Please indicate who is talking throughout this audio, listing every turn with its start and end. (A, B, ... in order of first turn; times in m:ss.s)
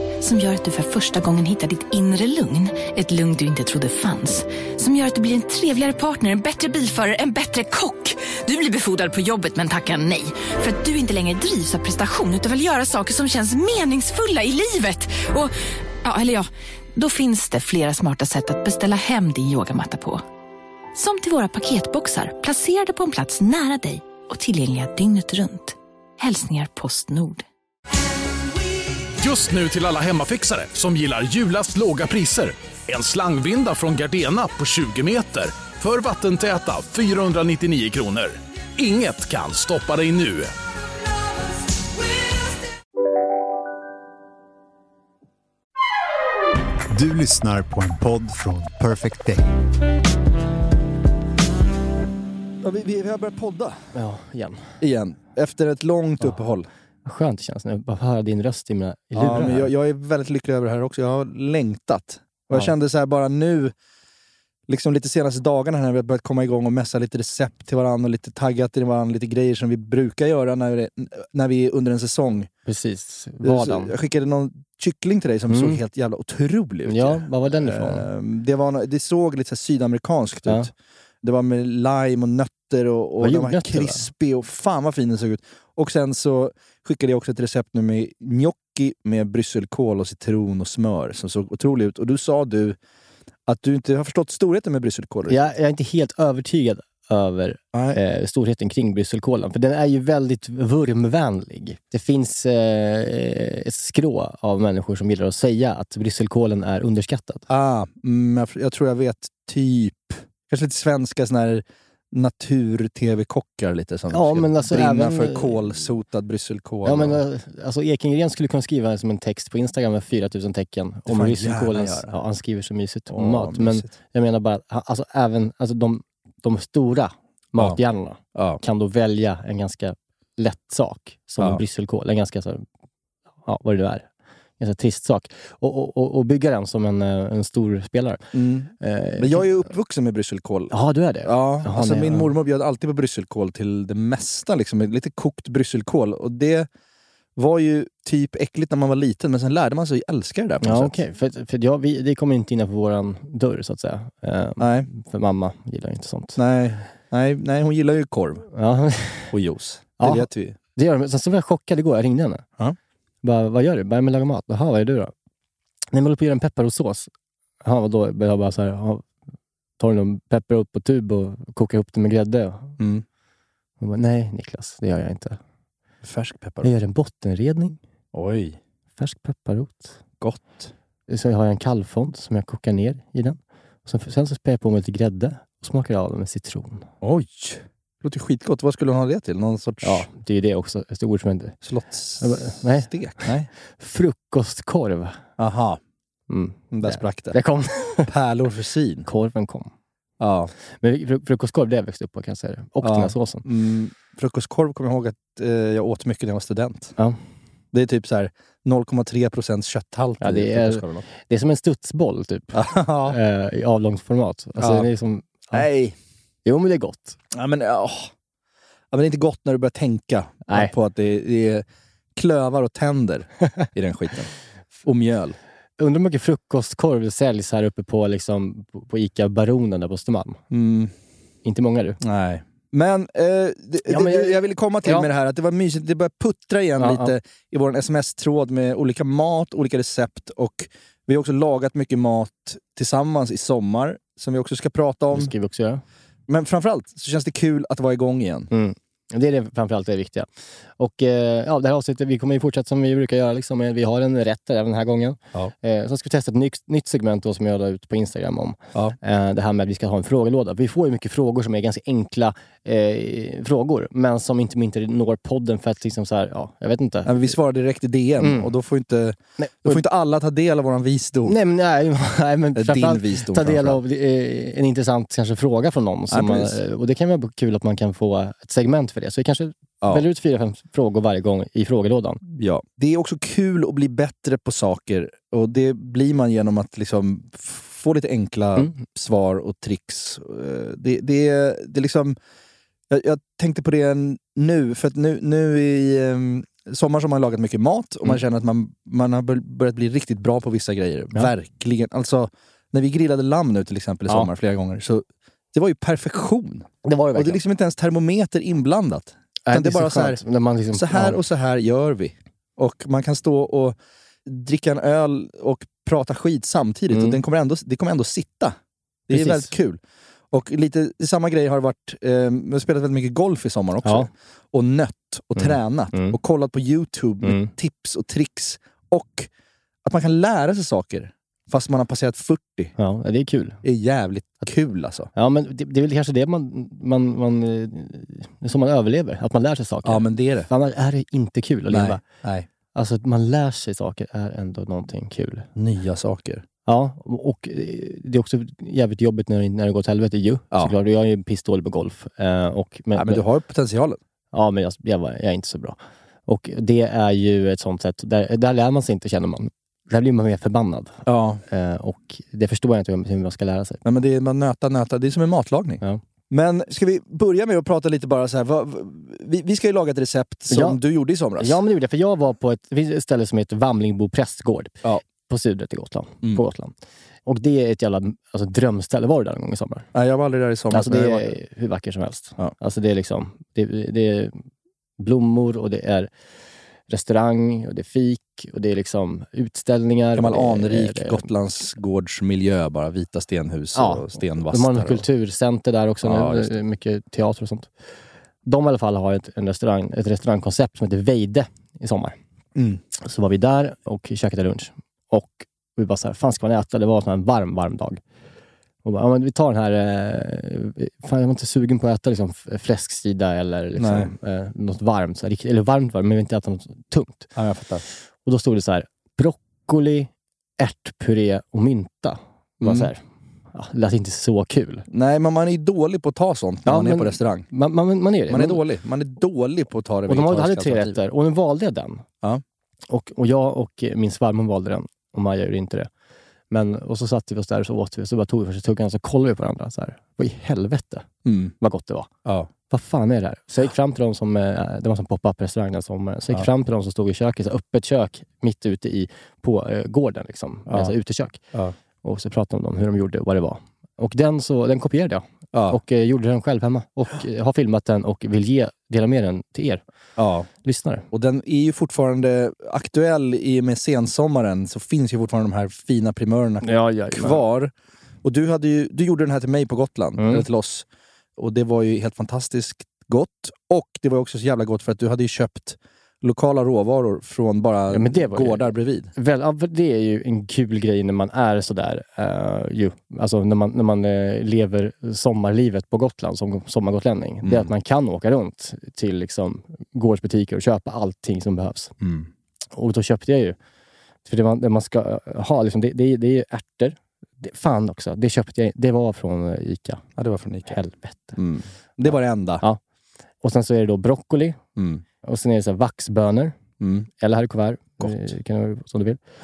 0:00.2-0:20.2 A
0:20.9-0:27.4 A
0:29.2-0:40.5 B
0:46.9-0:49.4 C
0:52.6-0:53.8 D
0:53.9-0:54.6 E
0:54.8-0:56.7 D
0:57.0-0:59.7 E
0:59.1-1:03.7 D
1:04.7-1:12.5 D
1:12.7-1:13.9 E
1:13.4-1:20.7 D
1:15.5-1:15.8 E
1:16.8-1:18.0 E
1:21.2-1:32.8 D
1:23.2-1:24.1 E
1:33.4-1:35.4 D
1:35.3-1:47.5 E
1:37.7-1:38.0 D
1:47.5-1:57.2 D
1:54.1-1:55.6 E
1:56.8-2:12.6 E
2:01.1-2:02.1 D
2:03.1-2:03.9 D
2:08.3-2:08.6 D
2:13.4-2:14.1 E
2:14.6-2:18.2 E
2:18.3-2:20.7 D
2:18.8-2:19.5 E
2:20.7-2:22.3 E
2:21.2-2:26.7 D
2:27.4-2:31.0 D
2:30.6-2:36.4 E
2:34.6-2:34.9 D
2:36.4-2:38.5 D
2:38.5-2:39.3 E
2:39.3-2:40.6 D
2:40.0-2:42.4 E
2:43.2-2:45.1 E
2:45.9-2:47.1 E
2:47.6-2:49.0 E
2:49.8-2:52.7 E
2:52.8-2:53.0 D
2:53.8-2:55.4 E
2:56.0-2:56.7 D
2:56.6-2:57.8 E
2:58.1-2:58.6 D
2:59.0-3:00.0 E
3:00.2-3:00.7 D
3:01.1-3:06.8 E
3:07.0-3:10.1 D
3:09.8-3:11.6 E
3:11.6-3:13.5 D
3:12.2-3:13.3 E
3:13.8-3:15.2 E
3:15.4-3:15.8 D
3:16.3-3:18.1 E
3:16.7-3:17.4 D
3:18.0-3:19.1 D
3:19.0-3:19.7 E
3:20.2-3:20.5 D
3:20.8-3:23.4 E
3:22.8-3:26.9 D
3:27.7-3:31.0 D
3:30.2-3:35.6 E
3:32.5-3:33.2 D
3:34.6-3:34.9 D
3:35.5-3:35.9 D
3:36.4-3:37.2 E
3:37.3-3:38.1 D
3:38.9-3:41.6 D
3:42.2-3:44.3 D
3:44.8-3:45.4 D
3:45.8-3:50.4 E
3:50.5-3:50.9 D
3:51.4-3:52.0 E
3:52.0-4:05.3 D
3:53.8-3:55.1 E
3:56.8-3:57.1 E
4:05.1-4:05.8 E
4:06.3-4:08.5 D
4:08.5-4:27.3 E
4:27.0-4:31.4 D
4:28.2-4:28.5 E
4:29.4-4:29.8 E
4:31.2-4:42.2 E
4:32.6-4:33.8 D
4:36.1-4:36.6 D
4:42.3-4:52.2 D
4:52.9-5:10.2 D
5:06.8-5:07.4 E
5:09.4-5:11.2 E
5:10.7-5:18.6 D
5:16.9-5:17.2 E
5:19.1-5:19.8 D
5:19.1-5:19.5 E
5:20.3-5:29.3 D
5:23.8-5:24.1 E
5:25.4-5:26.2 E
5:27.2-5:27.5 E
5:29.8-5:32.7 D
5:32.8-5:33.6 E
5:33.6-5:35.1 D
5:35.1-5:42.0 E
5:39.8-5:40.5 D
5:41.7-5:42.5 D
5:42.7-5:45.5 E
5:45.6-5:46.4 D
5:46.6-5:53.2 E
5:52.9-5:54.0 D
5:54.3-6:03.8 E
6:01.0-6:01.4 D
6:03.8-6:11.6 D
6:10.5-6:10.8 E
6:11.4-6:16.7 E
6:17.2-6:19.8 E
6:19.9-6:21.3 D
6:20.7-6:24.4 E
6:25.0-6:26.1 E
6:26.9-6:31.3 E
6:30.2-6:35.0 D
6:33.7-6:37.7 E
6:36.0-6:36.6 D
6:38.4-6:42.2 E
6:42.5-6:42.8 D
6:43.0-6:48.0 E
6:48.8-6:57.3 E
6:53.8-6:54.1 D
6:57.3-6:57.8 D
6:58.2-7:03.0 E
7:02.6-7:02.9 D
7:03.5-7:04.8 E
7:04.9-7:07.5 D
7:06.6-7:08.6 E
7:08.3-7:11.0 D
7:10.1-7:12.0 E
7:12.9-7:15.9 E
7:16.5-7:21.1 E
7:21.2-7:21.5 D
7:21.6-7:22.1 E
7:22.2-7:22.5 D
7:22.7-7:31.4 E
7:30.7-7:30.9 D
7:32.0-7:39.8 E
7:35.5-7:35.8 D
7:40.2-7:40.5 D
7:40.6-7:41.0 E
7:41.1-7:50.8 D
7:46.6-7:47.4 E
7:50.2-7:50.5 E
7:51.4-7:59.1 D
7:57.9-8:11.9 E
8:07.4-8:07.7 D
8:12.0-8:12.3 D
8:12.7-8:13.6 E
8:14.2-8:20.0 E
8:20.2-8:20.8 D
8:20.7-8:21.4 E
8:21.4-8:22.6 D
8:23.4-8:24.6 E
8:24.8-8:25.0 D
8:25.2-8:26.5 E
8:26.8-8:27.1 D
8:27.2-8:29.2 E
8:28.0-8:28.3 D